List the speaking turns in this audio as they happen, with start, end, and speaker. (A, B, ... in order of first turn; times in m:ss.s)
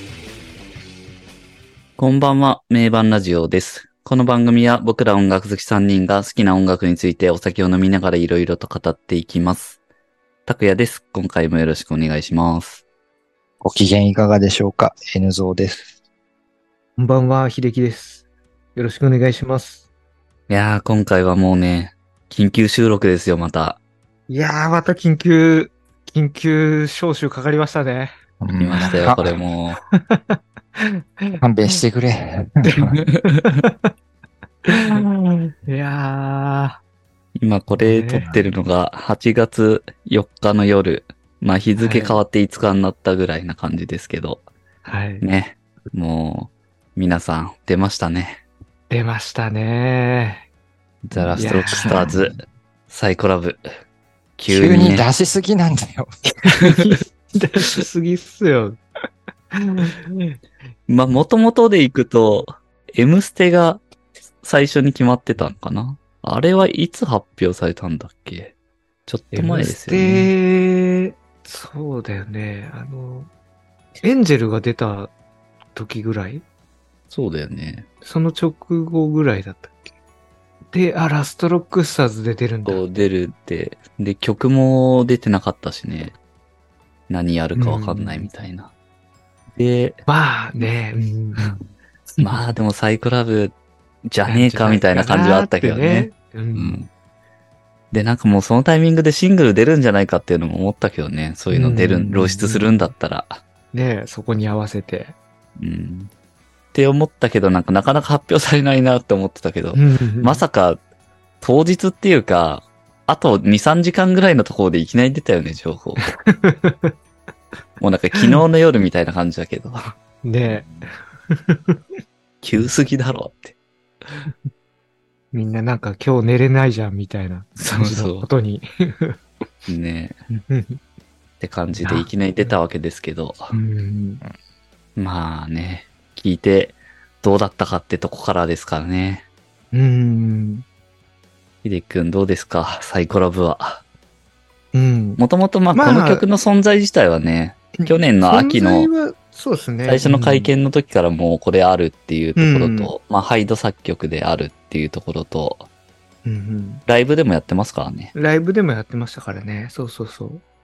0:02.0-0:09.8 A
0:10.5-0:12.8 A
0:13.6-0:15.9 B
0:17.0-0:18.2 C
0:18.8-0:19.8 C
0:20.5-0:23.8 A
0:24.3-0:28.1 C
0:28.4-0:29.4 B
0:28.5-0:29.8 A
0:29.9-0:31.4 C
0:31.4-0:33.0 B
0:32.7-0:33.9 C
0:34.7-0:36.8 C
0:37.4-0:44.5 A
0:37.8-0:38.4 C
0:41.8-0:42.2 C
0:44.8-0:45.2 C
0:45.2-0:48.4 A
0:48.9-0:50.5 C
0:51.0-0:52.4 A
0:51.1-0:52.4 B
0:51.4-0:52.1 C
0:52.9-0:53.7 A
0:54.4-0:55.0 A
0:54.5-0:56.2 B
0:56.6-0:58.8 C
0:59.5-1:00.4 C
1:00.9-1:03.8 A
1:04.4-1:08.6 A
1:09.1-1:10.3 A
1:09.3-1:13.3 C
1:14.0-1:15.1 C
1:15.8-1:16.4 C
1:17.1-1:17.9 A
1:18.0-1:19.9 C
1:20.7-1:22.8 C
1:22.6-1:26.2 A
1:27.1-1:28.7 A
1:27.6-1:28.3 C
1:29.6-1:30.0 A
1:30.1-1:31.6 C
1:31.4-1:31.7 A
1:32.2-1:36.9 A
1:34.3-1:36.8 C
1:37.9-1:43.4 A
1:41.5-1:42.8 C
1:43.7-1:45.2 C
1:45.6-1:46.1 A
1:46.7-1:50.8 A
1:49.8-1:50.4 C
1:51.4-1:56.1 A
1:56.0-1:57.0 C
1:57.8-2:00.0 A
1:58.2-1:58.4 C
2:00.2-2:01.8 C
2:02.4-2:03.6 A
2:05.3-2:09.2 C
2:07.6-2:08.3 A
2:09.7-2:10.2 A
2:10.3-2:10.8 C
2:11.4-2:13.5 A
2:11.8-2:12.1 C
2:13.5-2:14.2 C
2:15.0-2:19.3 A
2:19.7-2:20.6 C
2:21.6-2:23.8 A
2:24.7-2:25.2 C
2:25.2-2:28.9 A
2:25.7-2:26.2 C
2:27.8-2:30.5 C
2:29.9-2:35.7 A
2:32.4-2:32.9 C
2:36.2-2:36.8 C
2:36.9-2:38.2 A
2:38.1-2:40.4 C